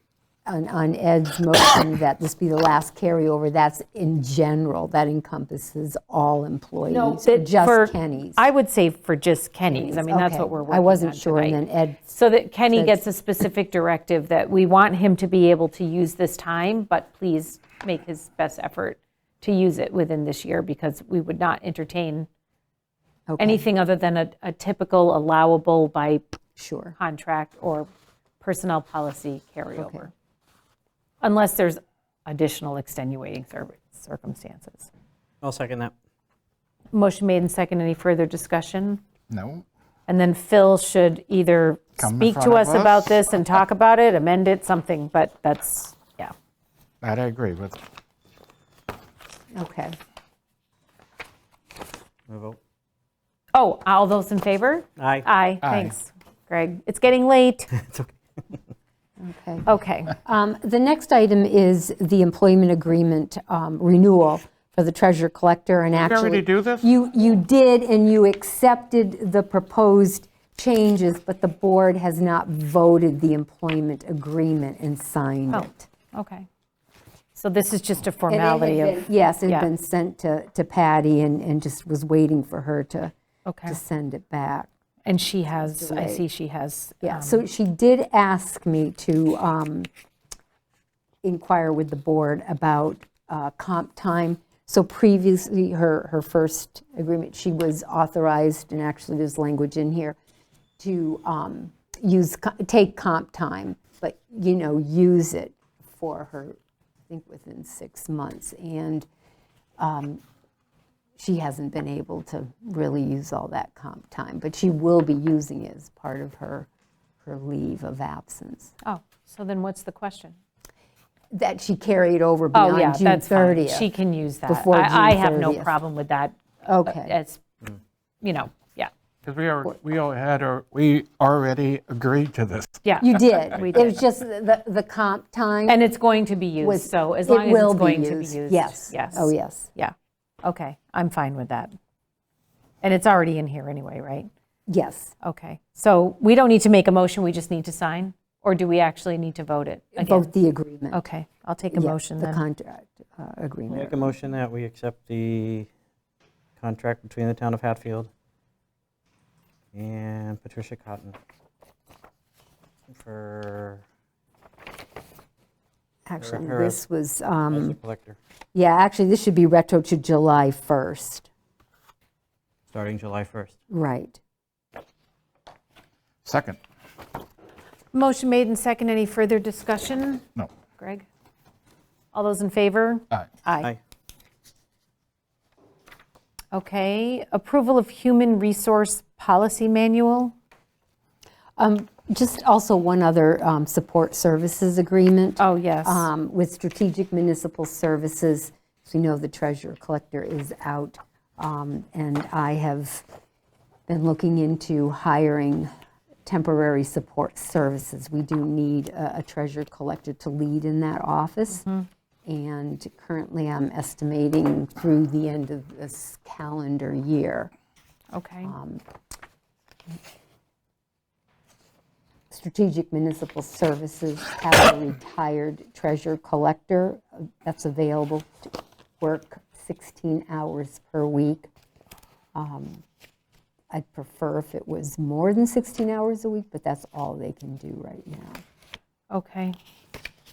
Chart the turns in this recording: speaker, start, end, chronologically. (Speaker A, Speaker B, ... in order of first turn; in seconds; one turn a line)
Speaker A: 0.5-8.5
Speaker B: 6.9-22.3
Speaker A: 9.7-12.2
Speaker A: 12.7-13.0
Speaker A: 23.3-23.6
Speaker B: 23.4-26.2
Speaker A: 26.6-26.9
Speaker B: 27.0-27.9
Speaker B: 28.4-30.1
Speaker A: 29.8-30.1
Speaker B: 31.2-34.9
Speaker C: 35.4-35.9
Speaker B: 36.9-39.0
Speaker D: 39.3-39.6
Speaker B: 40.1-46.3
Speaker D: 42.0-43.2
Speaker D: 47.0-47.8
Speaker A: 49.5-50.0
Speaker C: 52.3-52.6
Speaker B: 53.5-57.7
Speaker C: 55.0-55.2
Speaker D: 55.6-55.9
Speaker A: 59.2-59.7
Speaker B: 59.6-60.1
Speaker A: 60.2-75.9
Speaker D: 66.0-66.9
Speaker B: 75.5-76.5
Speaker B: 77.3-79.7
Speaker A: 78.3-83.1
Speaker B: 83.4-83.8
Speaker A: 83.7-84.7
Speaker B: 85.0-87.4
Speaker A: 85.6-86.2
Speaker A: 87.0-89.9
Speaker A: 91.2-100.2
Speaker A: 100.8-106.6
Speaker A: 107.1-109.0
Speaker A: 109.8-110.2
Speaker A: 111.2-116.7
Speaker A: 117.2-118.7
Speaker B: 118.8-120.4
Speaker A: 121.3-123.9
Speaker B: 122.5-127.4
Speaker A: 124.5-125.7
Speaker A: 126.6-127.1
Speaker B: 128.2-128.9
Speaker D: 129.2-132.8
Speaker B: 132.8-133.9
Speaker A: 133.0-135.8
Speaker B: 135.7-141.7
Speaker A: 136.6-139.7
Speaker B: 142.8-144.3
Speaker A: 144.7-145.1
Speaker B: 145.2-150.3
Speaker A: 150.0-151.0
Speaker B: 150.9-152.4
Speaker A: 151.7-154.2
Speaker C: 153.7-155.7
Speaker C: 156.6-158.1
Speaker C: 159.7-161.2
Speaker C: 162.9-163.8
Speaker A: 166.1-167.8
Speaker C: 166.2-166.8
Speaker C: 167.5-168.2
Speaker A: 168.5-171.3
Speaker C: 172.7-173.5
Speaker A: 173.7-174.2
Speaker D: 176.2-176.6
Speaker B: 177.9-180.2
Speaker B: 180.8-181.1
Speaker B: 182.1-183.7
Speaker B: 186.5-190.3
Speaker A: 191.6-203.1
Speaker B: 195.4-196.1
Speaker A: 203.9-205.7
Speaker A: 206.2-211.6
Speaker B: 211.5-211.9
Speaker A: 212.2-217.5
Speaker B: 218.1-218.5
Speaker A: 218.4-218.8
Speaker A: 222.3-231.5
Speaker A: 232.3-232.8
Speaker A: 233.7-238.4
Speaker B: 239.1-239.6